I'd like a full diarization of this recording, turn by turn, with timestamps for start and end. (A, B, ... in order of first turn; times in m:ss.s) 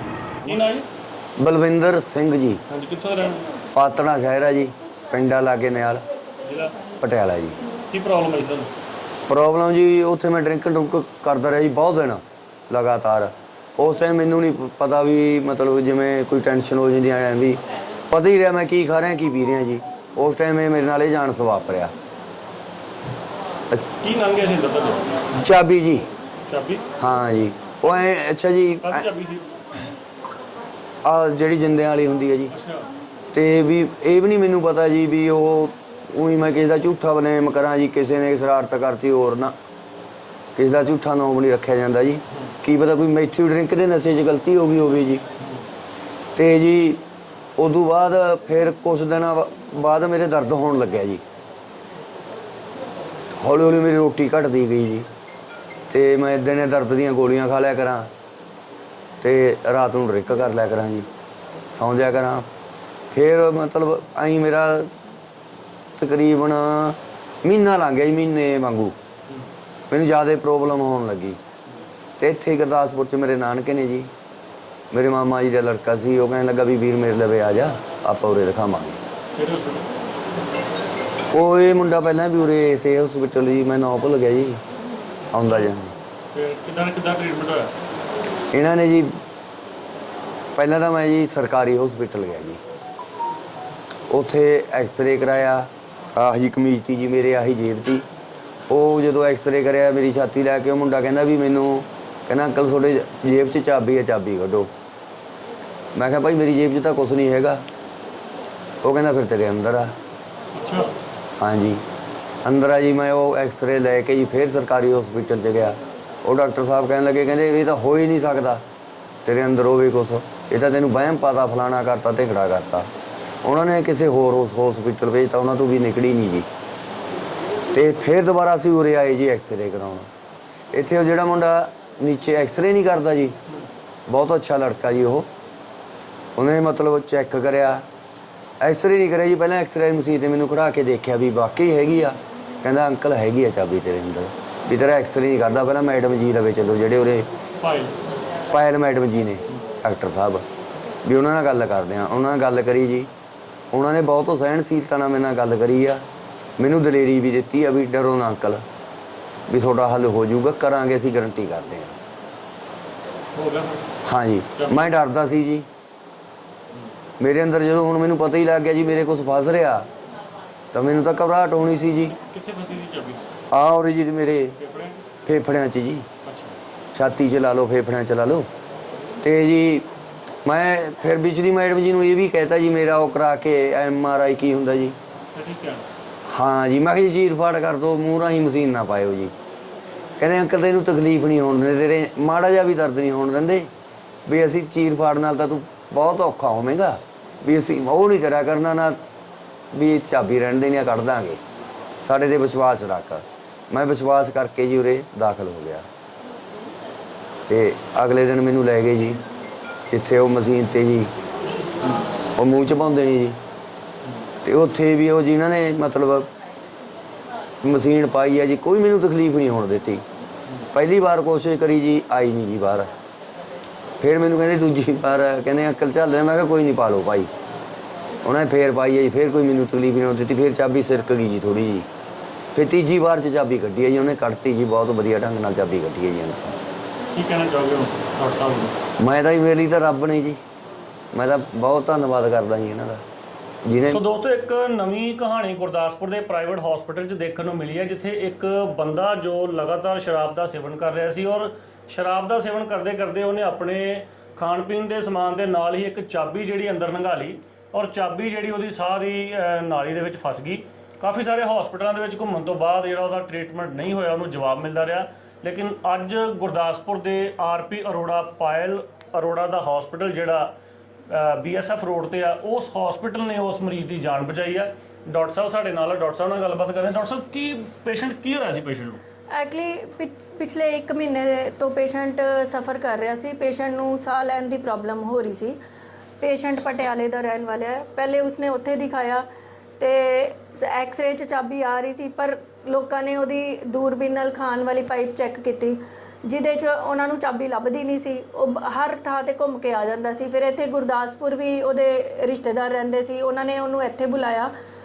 0:00.4-0:00.9 A
0:01.4-0:02.6 B
0:02.7-0:03.6 A
0:03.7-0:06.1 B
0:06.4-0:06.9 A
0:06.9-0:07.6 B
0:07.9-0:08.7 A
0:09.3-0:21.9 B
0:24.0-0:25.3 A
0:25.4-0:26.1 B
0:26.4-0:26.8 A
0:27.0-0:29.1 B
0:28.8-0:29.8 A
0:31.0-0:32.5 B
0:32.5-0:32.9 A
0:33.3-0:39.6 B
0:40.6-0:45.2 B
0:45.4-0:45.6 A
0:46.4-0:47.0 B
0:47.6-0:51.2 B
0:53.4-0:55.1 B
0:55.9-0:58.1 B
0:59.2-1:01.1 B
1:01.8-1:02.5 B
1:03.1-1:05.0 B
1:06.0-1:09.0 B
1:09.9-1:11.4 B
1:12.2-1:14.1 B
1:14.9-1:19.0 B
1:19.4-1:19.9 A
1:21.3-1:24.6 B
1:25.3-1:26.0 B
1:25.4-1:25.7 A
1:26.3-1:27.7 A
1:28.5-1:29.2 B
1:30.6-1:32.6 B
1:34.1-1:38.0 B
1:38.7-1:44.7 B
1:46.0-1:47.6 B
1:48.8-1:50.0 B
1:50.5-1:50.9 A
1:51.4-1:51.8 B
1:52.4-1:58.6 B
1:59.2-2:02.9 B
2:03.4-2:06.5 B
2:07.7-2:10.1 B
2:10.7-2:13.4 B
2:14.1-2:15.3 B
2:16.4-2:17.8 B
2:18.6-2:27.3 B
2:27.6-2:28.0 A
2:28.5-2:30.4 B
2:31.0-2:33.1 B
2:33.7-2:36.0 B
2:36.6-2:38.6 B
2:39.5-2:42.0 B
2:43.4-2:43.9 A
2:44.1-2:45.7 B
2:44.5-2:44.9 A
2:47.2-2:49.9 B
2:50.7-2:52.2 B
2:52.1-2:53.2 A
2:53.5-2:54.6 B
2:54.6-2:55.1 A
2:55.3-2:56.1 B
2:56.2-2:56.6 A
2:56.9-2:58.5 B
2:59.2-2:59.9 B
3:00.4-3:05.0 B
3:05.3-3:05.9 A
3:06.3-3:09.3 B
3:10.2-3:13.7 B
3:14.3-3:19.0 B
3:19.7-3:21.4 B
3:22.0-3:25.9 B
3:27.5-3:29.2 B
3:29.9-3:31.1 B
3:32.4-3:33.4 B
3:34.4-3:36.3 B
3:37.6-3:40.0 B
3:40.7-3:42.9 B
3:44.0-3:47.3 B
3:48.2-3:51.9 B
3:52.5-3:56.6 B
3:57.1-3:58.8 A
3:59.0-4:00.4 B
4:01.1-4:03.0 B
4:03.6-4:04.0 B
4:03.9-4:30.6 A
4:31.1-4:39.0 A
4:39.3-4:45.6 C
4:46.2-4:49.3 C
4:49.8-5:04.5 C